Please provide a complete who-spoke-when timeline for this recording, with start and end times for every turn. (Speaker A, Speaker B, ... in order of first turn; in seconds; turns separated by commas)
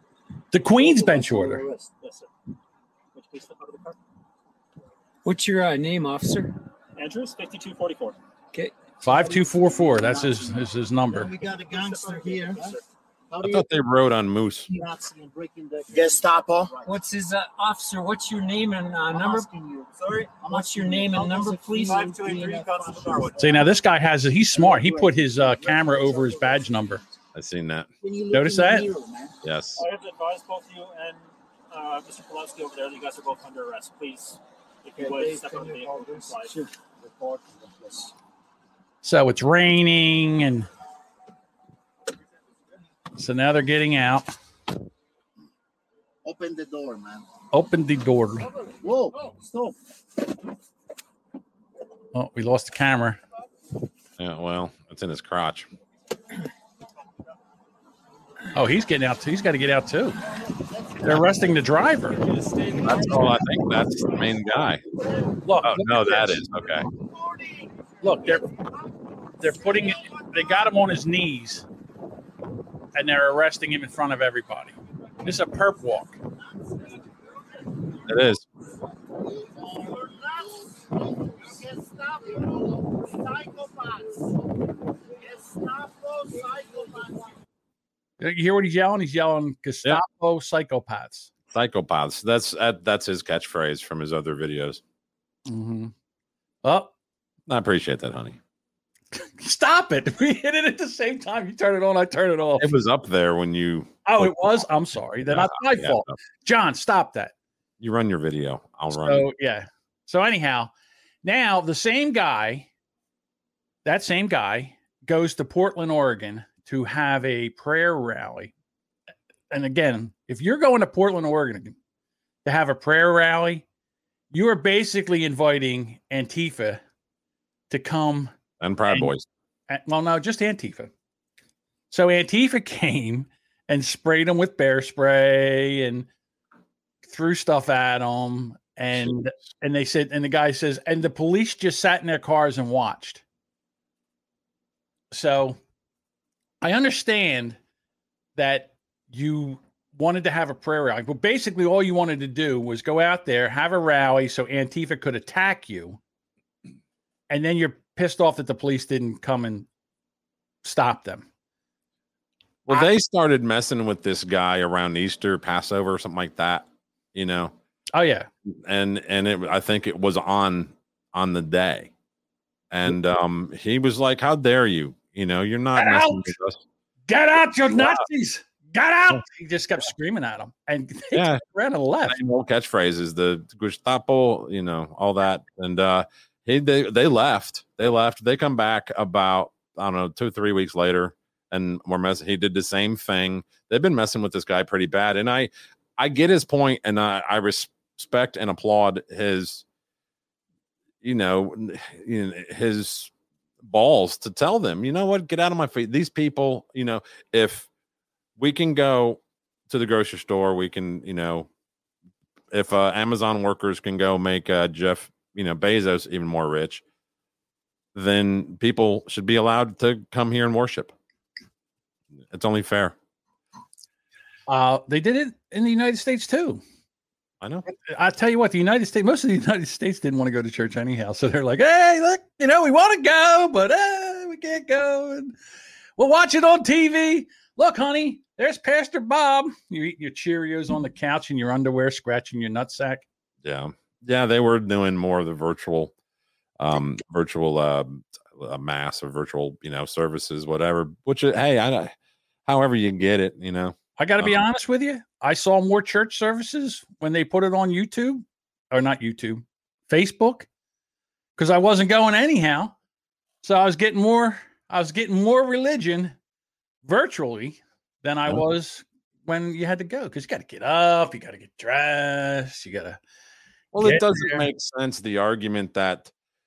Speaker A: 0.5-1.6, Speaker B: 0.7-2.3, Speaker B: 3.1-4.0, Speaker C: 5.2-6.6, Speaker B: 7.0-8.2, Speaker A: 9.0-11.3, Speaker D: 9.1-12.7, Speaker B: 11.1-12.8, Speaker D: 13.3-13.6, Speaker E: 13.4-14.7, Speaker D: 14.7-16.8, Speaker B: 16.0-16.2, Speaker C: 16.8-19.5, Speaker D: 19.1-19.8, Speaker B: 19.9-20.6, Speaker D: 20.4-23.3, Speaker C: 20.4-22.8, Speaker B: 21.8-23.7, Speaker A: 23.4-27.0, Speaker D: 24.5-26.6, Speaker E: 27.3-27.9, Speaker D: 28.1-29.2, Speaker A: 28.3-28.9, Speaker E: 29.4-29.8, Speaker B: 29.8-36.6, Speaker D: 35.0-38.1, Speaker A: 39.0-40.7, Speaker A: 43.1-44.3, Speaker D: 46.2-47.2, Speaker A: 47.5-48.5, Speaker D: 48.8-49.7, Speaker A: 52.1-53.2, Speaker E: 54.2-55.7, Speaker A: 58.5-60.2, Speaker A: 61.0-62.2, Speaker B: 62.7-63.3, Speaker E: 62.8-64.8, Speaker A: 65.4-66.4, Speaker E: 65.6-66.9, Speaker A: 68.0-68.5, Speaker A: 69.4-71.7, Speaker A: 72.9-76.2, Speaker E: 78.0-78.5, Speaker D: 80.0-80.3, Speaker D: 81.7-82.4, Speaker D: 83.2-84.0, Speaker D: 85.5-87.2, Speaker A: 88.2-91.3, Speaker E: 91.5-94.8, Speaker A: 95.5-95.9, Speaker A: 96.6-96.9, Speaker E: 97.5-98.4, Speaker A: 99.1-102.7, Speaker E: 102.6-104.6, Speaker A: 104.0-107.3, Speaker E: 105.2-106.1, Speaker E: 107.8-109.3, Speaker A: 108.9-110.7, Speaker A: 111.2-112.7, Speaker A: 113.8-118.5, Speaker A: 119.5-121.7, Speaker A: 122.4-123.6, Speaker A: 124.3-126.8, Speaker A: 127.7-128.3, Speaker E: 128.6-129.3, Speaker A: 129.7-130.9, Speaker A: 131.9-136.1, Speaker A: 137.1-143.2, Speaker E: 138.9-139.4, Speaker A: 145.1-145.6, Speaker A: 146.6-147.6, Speaker A: 148.3-156.0, Speaker A: 157.3-159.7, Speaker A: 160.6-161.3, Speaker E: 162.7-167.5, Speaker A: 167.9-168.3, Speaker E: 168.4-171.9, Speaker E: 172.7-176.6, Speaker A: 175.7-176.3, Speaker A: 177.1-182.2, Speaker E: 177.8-178.0, Speaker E: 181.1-181.4, Speaker E: 182.1-199.6, Speaker E: 201.0-203.1, Speaker E: 203.6-207.7, Speaker E: 208.4-211.5, Speaker E: 212.5-216.8, Speaker E: 217.9-220.9, Speaker E: 222.3-222.9, Speaker A: 224.5-226.6, Speaker A: 227.7-235.3, Speaker A: 236.0-243.0, Speaker E: 243.4-245.9, Speaker E: 246.6-251.9, Speaker E: 252.4-254.4, Speaker A: 254.0-260.5, Speaker A: 261.4-262.7, Speaker A: 263.4-266.1, Speaker A: 266.8-273.0, Speaker E: 273.7-276.1, Speaker A: 273.8-274.5